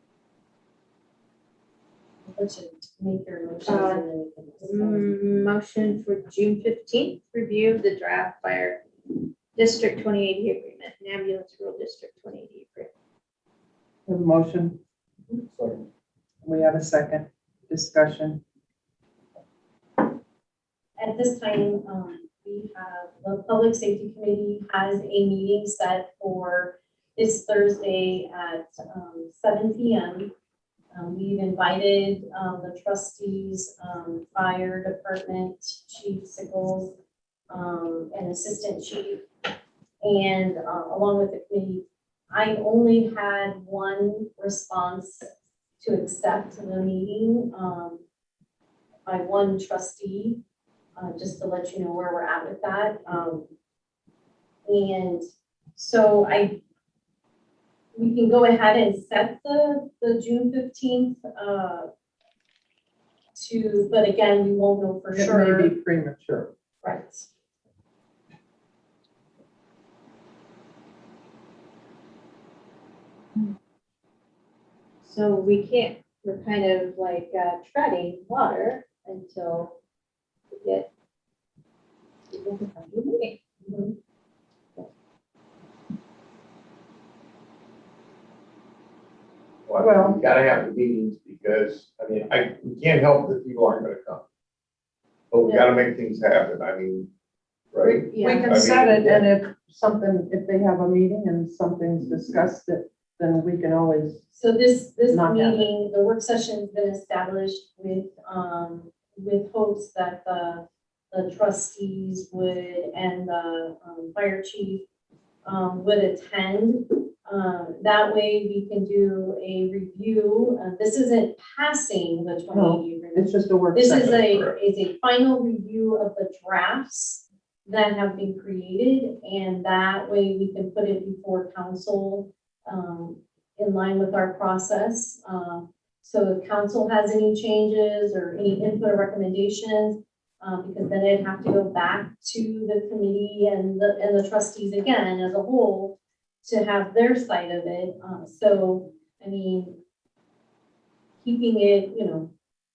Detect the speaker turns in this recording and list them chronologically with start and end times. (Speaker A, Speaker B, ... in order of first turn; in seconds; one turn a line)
Speaker A: 2.3-5.1
Speaker B: 3.7-4.0
Speaker B: 4.6-8.8
Speaker B: 9.6-12.9
Speaker C: 14.1-14.8
Speaker C: 16.4-18.4
Speaker A: 21.0-30.3
Speaker A: 30.9-37.0
Speaker A: 37.5-39.2
Speaker A: 40.0-45.3
Speaker A: 45.8-48.0
Speaker A: 49.1-50.4
Speaker A: 51.0-53.5
Speaker A: 54.7-56.6
Speaker A: 58.0-61.9
Speaker A: 63.4-65.7
Speaker C: 65.1-66.5
Speaker A: 66.8-67.3
Speaker B: 75.0-79.8
Speaker B: 80.5-80.9
Speaker B: 82.3-83.4
Speaker A: 83.7-83.9
Speaker D: 89.7-94.2
Speaker C: 89.8-90.2
Speaker D: 95.3-97.1
Speaker A: 95.5-95.7
Speaker D: 97.7-99.3
Speaker A: 97.8-98.7
Speaker C: 98.1-104.2
Speaker A: 104.3-114.8
Speaker C: 105.1-105.7
Speaker A: 115.5-149.8
Speaker C: 122.5-124.2
Speaker D: 123.9-124.5
Speaker A: 151.2-152.3